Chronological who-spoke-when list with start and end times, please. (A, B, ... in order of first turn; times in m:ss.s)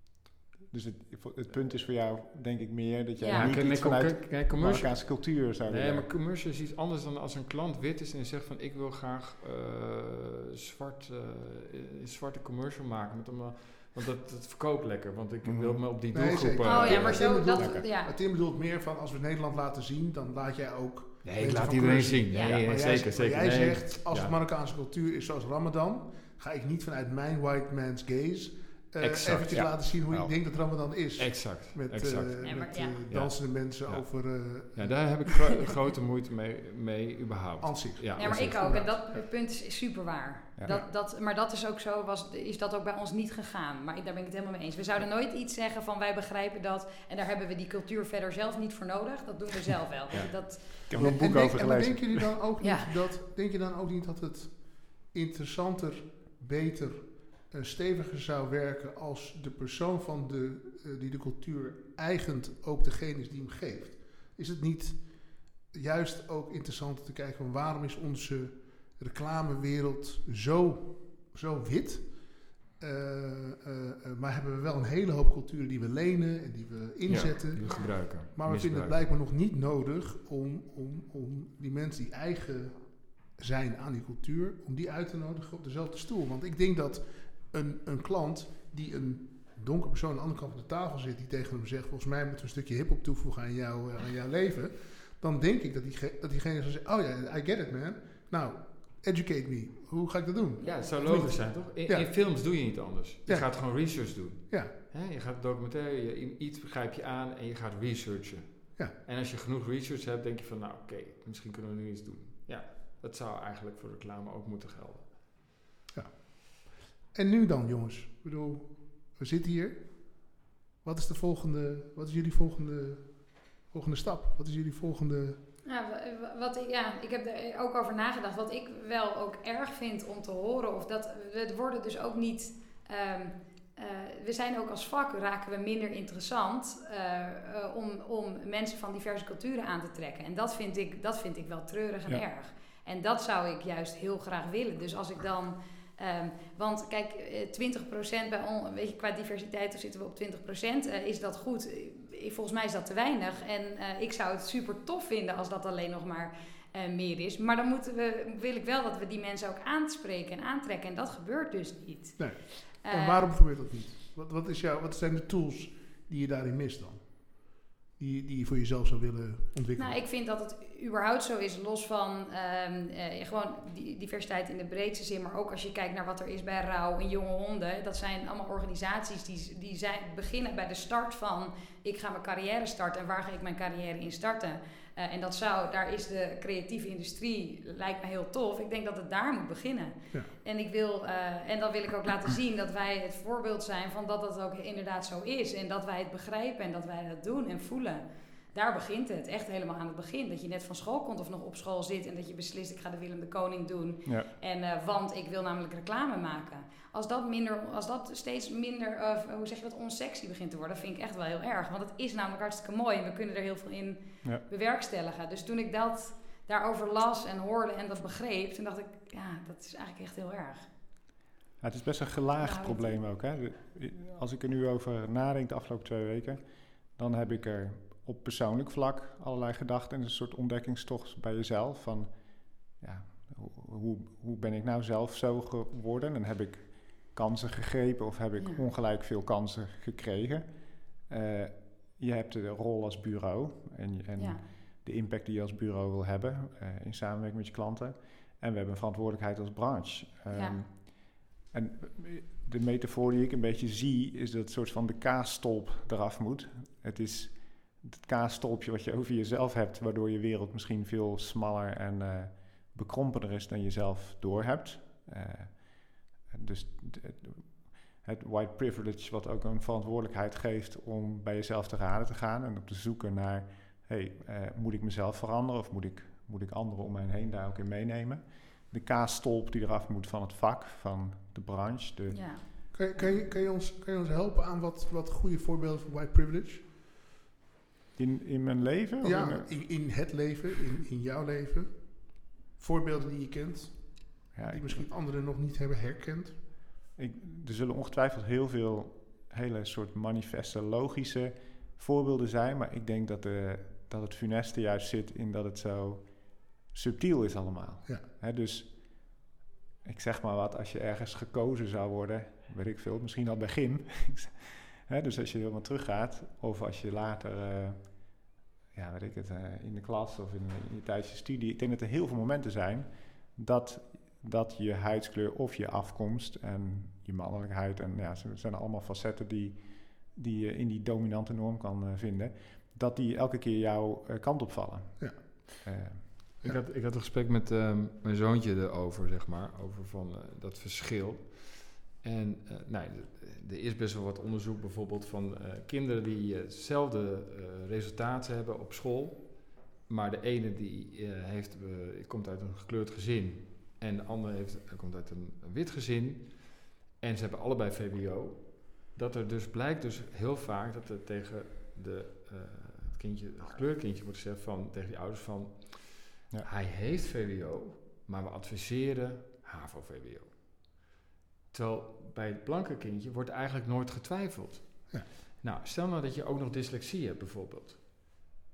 0:00.7-0:06.1 A
0:03.2-0:03.5 B
0:03.3-0:17.4 C
0:15.4-0:15.8 A
0:16.1-0:35.5 D
0:16.6-0:18.1 B
0:17.5-0:17.8 A
0:21.2-0:24.3 C
0:22.3-0:22.6 B
0:29.0-0:30.0 C
0:29.6-0:30.3 A
0:31.2-0:38.9 C
0:32.4-0:33.0 B
0:37.6-0:39.2 D
0:38.1-0:50.8 B
0:50.9-0:52.3 A
0:50.9-1:42.6 D
0:52.6-0:52.9 B
1:17.0-1:19.0 C
1:17.6-1:17.9 B
1:40.6-1:40.9 B
1:40.6-1:55.2 C
1:43.2-1:44.7 D
1:55.9-2:05.4 D
2:05.6-2:43.3 B
2:42.2-2:50.0 D
2:49.8-3:40.7 B
3:41.6-4:42.7 A
3:42.4-3:43.0 B
3:58.4-3:58.6 B
4:04.2-4:04.4 B
4:10.3-4:10.6 B
4:42.1-4:42.4 B
4:42.7-4:46.6 D
4:48.0-4:49.8 A
4:49.0-4:56.4 D
4:54.3-4:54.9 A
4:57.0-5:09.2 A
5:09.8-5:36.3 A
5:36.4-6:10.8 C
6:11.5-6:18.2 C